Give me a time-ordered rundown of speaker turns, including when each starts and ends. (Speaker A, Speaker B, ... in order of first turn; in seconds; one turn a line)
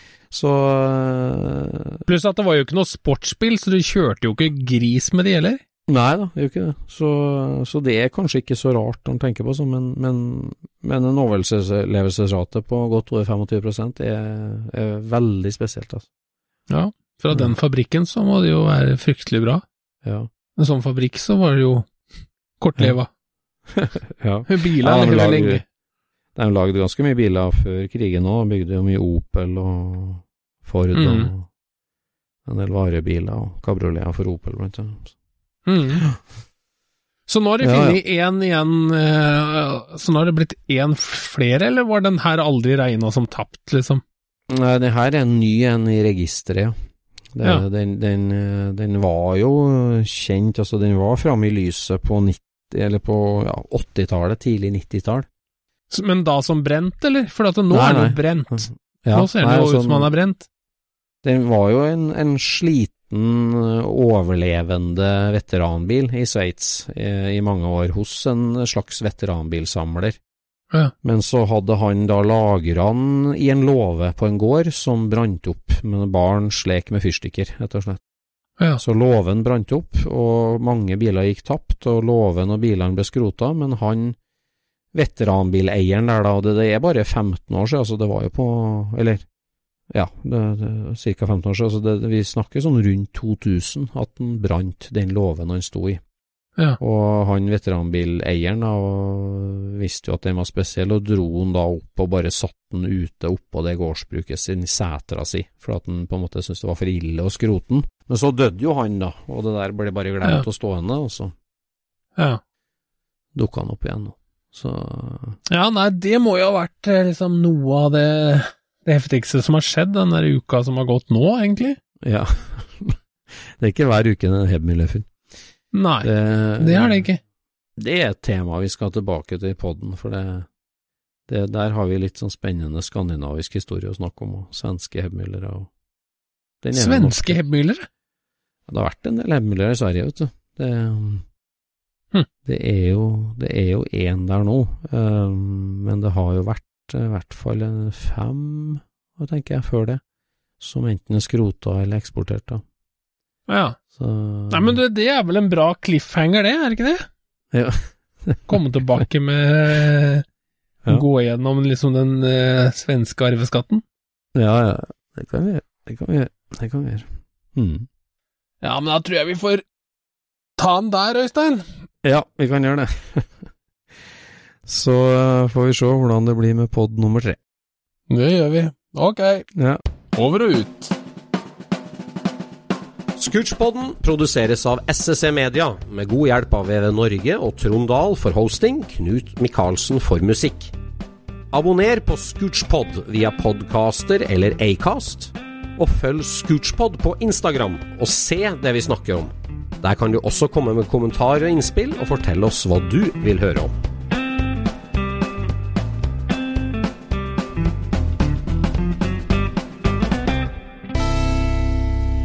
Speaker A: 0.3-2.0
Speaker B: 2.1-5.6
Speaker A: 5.9-16.1
Speaker B: 16.7-19.6
Speaker A: 20.0-20.3
Speaker B: 20.6-21.9
Speaker B: 22.6-23.1
Speaker A: 23.7-25.6
Speaker B: 24.5-25.6
Speaker A: 26.4-31.5
Speaker B: 30.9-31.3
Speaker A: 32.5-35.1
Speaker B: 35.7-36.0
Speaker B: 37.3-44.0
Speaker A: 37.6-38.0
Speaker A: 44.5-46.8
Speaker A: 47.3-55.3
Speaker B: 55.9-60.5
Speaker A: 57.7-60.1
Speaker A: 61.2-70.2
Speaker A: 71.0-78.0
Speaker A: 78.8-84.2
Speaker A: 84.9-89.2
Speaker A: 89.9-96.0
Speaker A: 96.8-111.3
Speaker A: 113.3-115.4
Speaker B: 115.5-121.8
Speaker A: 122.0-125.1
Speaker B: 125.7-127.2
Speaker A: 126.0-127.0
Speaker A: 127.8-130.5
Speaker A: 131.3-135.7
Speaker A: 136.6-137.4
Speaker B: 136.7-137.9
Speaker A: 138.7-141.2
Speaker A: 142.4-150.0
Speaker A: 150.6-152.6
Speaker B: 153.5-153.8
Speaker A: 153.9-154.8
Speaker B: 154.5-157.1
Speaker A: 157.5-158.6
Speaker B: 158.5-160.2
Speaker B: 160.9-163.8
Speaker A: 164.3-167.9
Speaker B: 168.6-169.6
Speaker B: 170.6-171.6
Speaker A: 172.0-173.4
Speaker A: 174.7-177.4
Speaker B: 178.1-179.4
Speaker A: 179.6-179.8
Speaker B: 180.1-180.9
Speaker C: 183.2-190.7
Speaker C: 191.5-203.7